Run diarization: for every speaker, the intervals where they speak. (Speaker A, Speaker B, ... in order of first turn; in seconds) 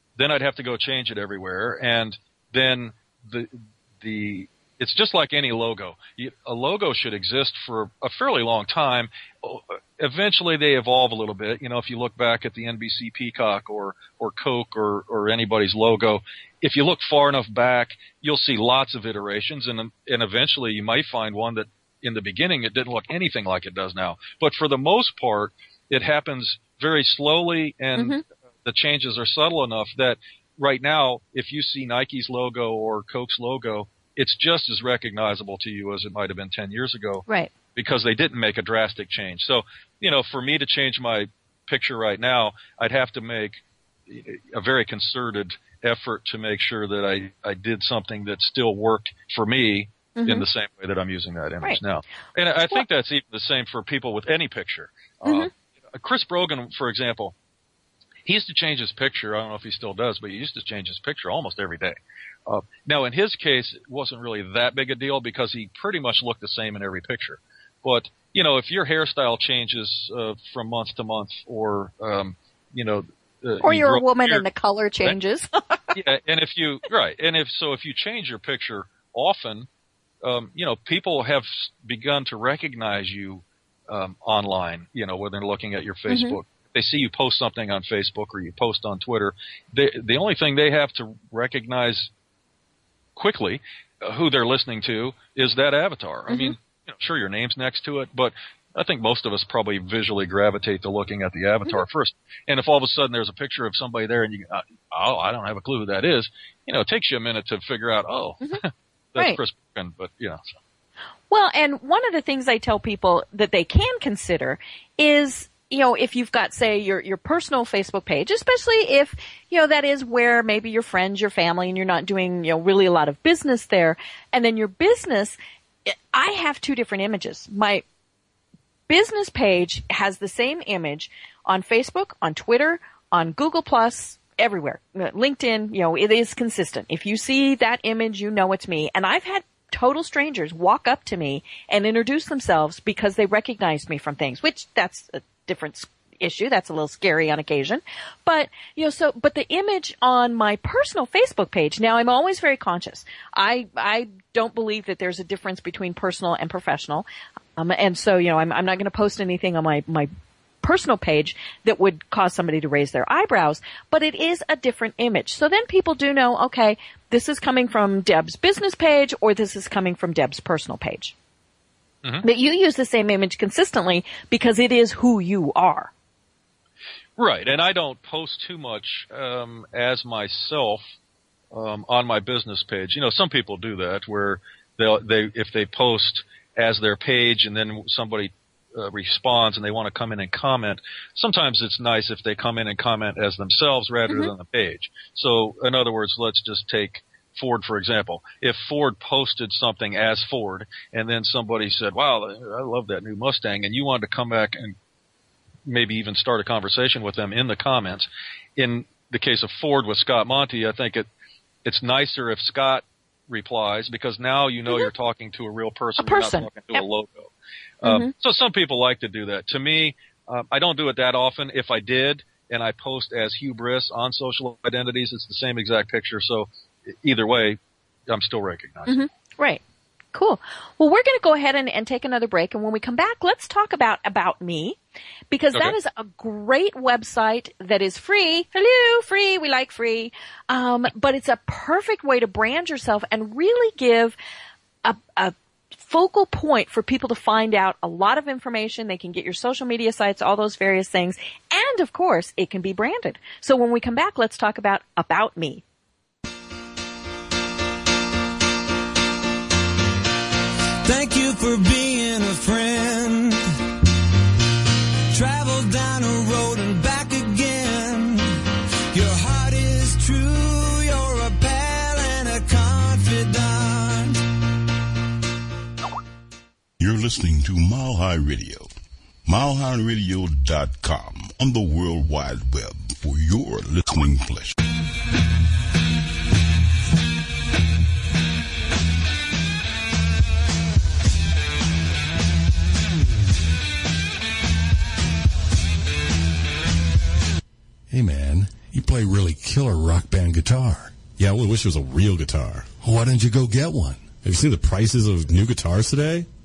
Speaker A: 0.2-57.3, 58.2-74.4, 75.9-79.7, 80.2-92.1, 93.2-110.5, 177.2-180.8, 181.5-204.7, 205.7-211.1, 211.6-217.3, 217.8-229.1
Speaker B: 50.1-50.5, 55.2-55.5, 73.6-75.8, 86.1-86.3, 96.3-96.5, 111.3-127.8, 128.9-157.1, 157.6-160.1, 160.6-171.1, 172.2-175.9, 216.0-216.8, 217.8-218.1, 228.9-229.6, 230.1-234.8, 235.3-244.2, 244.8-255.6
Speaker C: 260.8-263.5, 265.1-268.4, 268.9-274.2
Speaker D: 276.8-278.7, 279.2-284.6
Speaker E: 297.9-301.0, 302.8-304.0
Speaker F: 301.2-302.7, 304.2-306.3